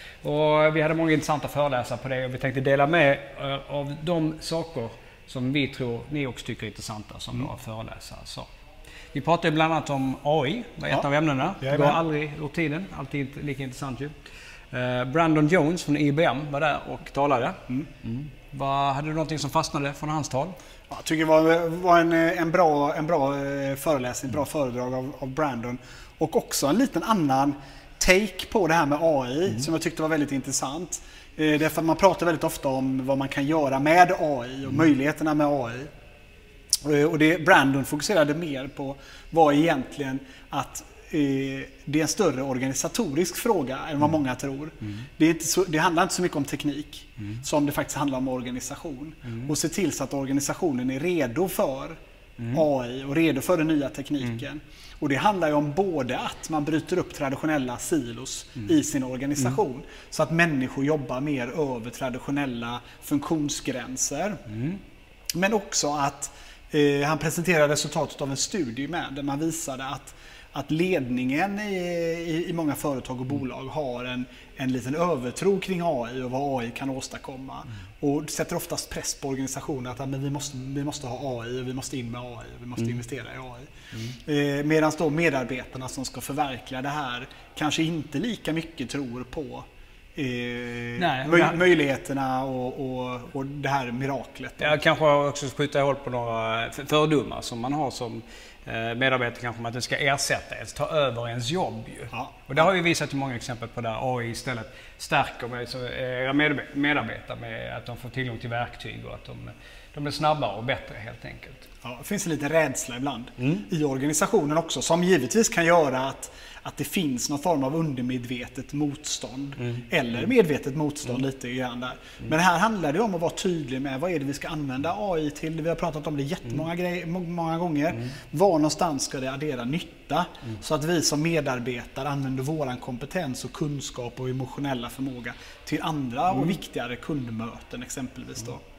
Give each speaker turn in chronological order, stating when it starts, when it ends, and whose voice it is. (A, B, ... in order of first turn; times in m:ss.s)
0:00.2-0:08.5 A
0:09.1-0:14.1 A
0:11.6-0:12.0 B
0:14.7-0:20.6 A
0:20.9-0:35.9 B
0:36.8-0:52.0 B
0:52.5-1:04.4 B
1:04.5-1:04.8 A
1:05.3-1:29.6 B
1:30.2-1:34.8 B
1:31.0-1:31.7 A
1:34.6-1:51.7 A
1:42.1-1:42.7 B
1:51.8-2:18.6 B